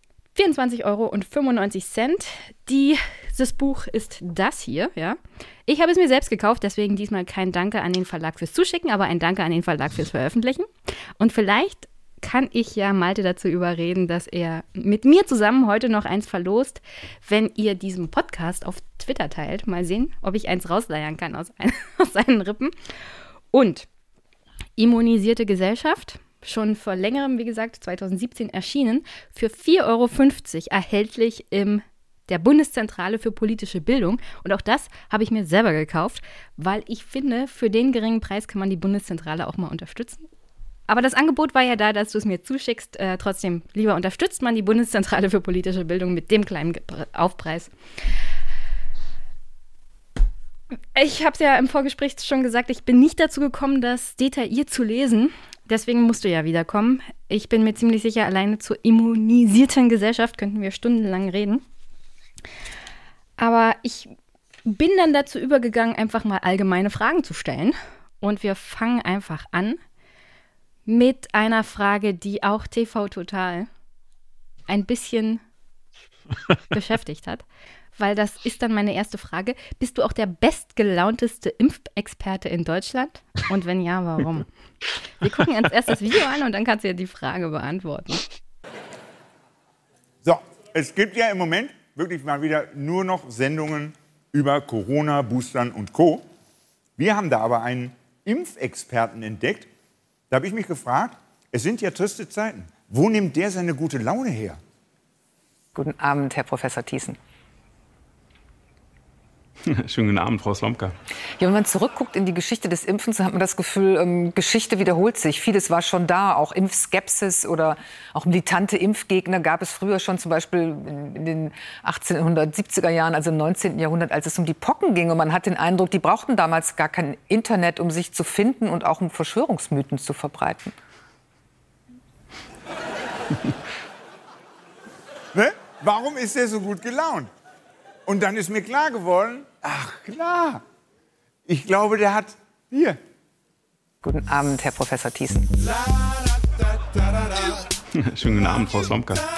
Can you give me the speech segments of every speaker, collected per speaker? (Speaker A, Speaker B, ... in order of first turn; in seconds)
Speaker A: 0.3-23.9, 24.8-40.3, 40.9-47.7, 50.9-61.6, 63.4-64.1, 64.7-69.8, 70.9-73.7, 74.7-75.4, 76.7-77.5, 78.0-84.5, 85.2-88.3
Speaker B: 90.2-96.2, 97.0-99.7, 100.3-104.6, 135.3-137.3, 138.1-140.6, 141.5-143.0
Speaker C: 105.8-107.2, 111.4-130.8, 144.0-145.5
Speaker D: 109.6-110.9, 147.9-149.2